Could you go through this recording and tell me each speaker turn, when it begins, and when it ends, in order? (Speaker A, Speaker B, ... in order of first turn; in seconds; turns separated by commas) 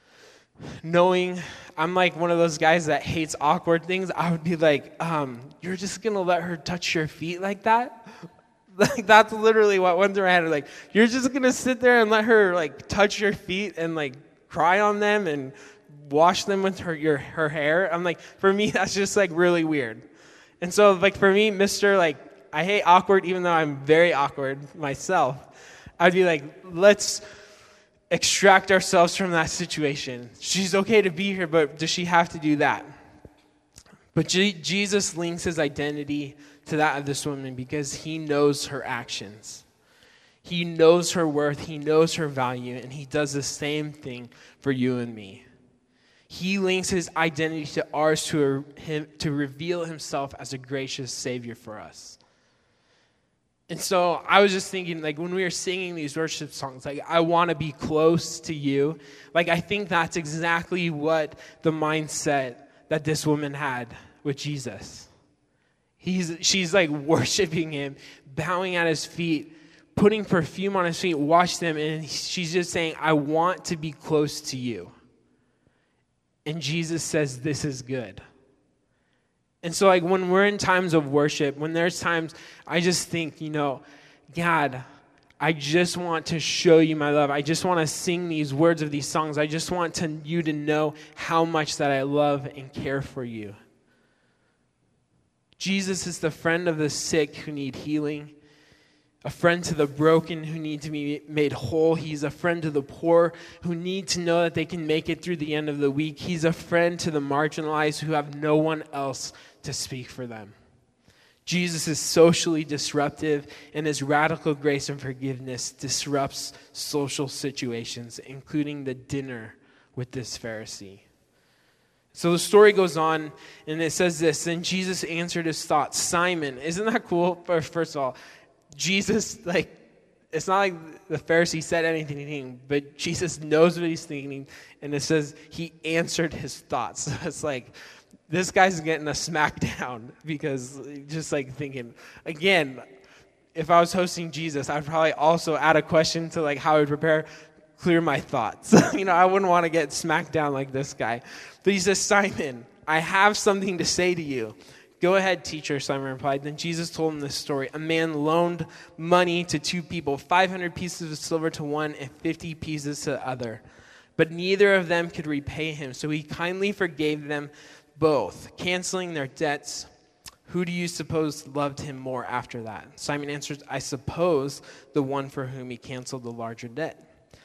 Speaker A: 0.8-8.0, Speaker A: 8.8-20.1, Speaker A: 20.6-25.5, Speaker A: 26.0-27.2, Speaker A: 28.1-32.9, Speaker A: 34.1-39.6, Speaker A: 40.4-45.4, Speaker A: 46.3-52.2, Speaker A: 53.7-65.1, Speaker A: 66.0-74.9, Speaker A: 76.5-78.2, Speaker A: 79.6-84.8, Speaker A: 85.4-93.6, Speaker A: 95.6-98.3, Speaker A: 99.2-110.6, Speaker A: 111.5-121.0, Speaker A: 122.1-128.2, Speaker A: 128.8-129.8, Speaker A: 130.3-137.7, Speaker A: 138.3-142.8, Speaker A: 143.6-163.6, Speaker A: 164.2-169.9, Speaker A: 170.5-177.0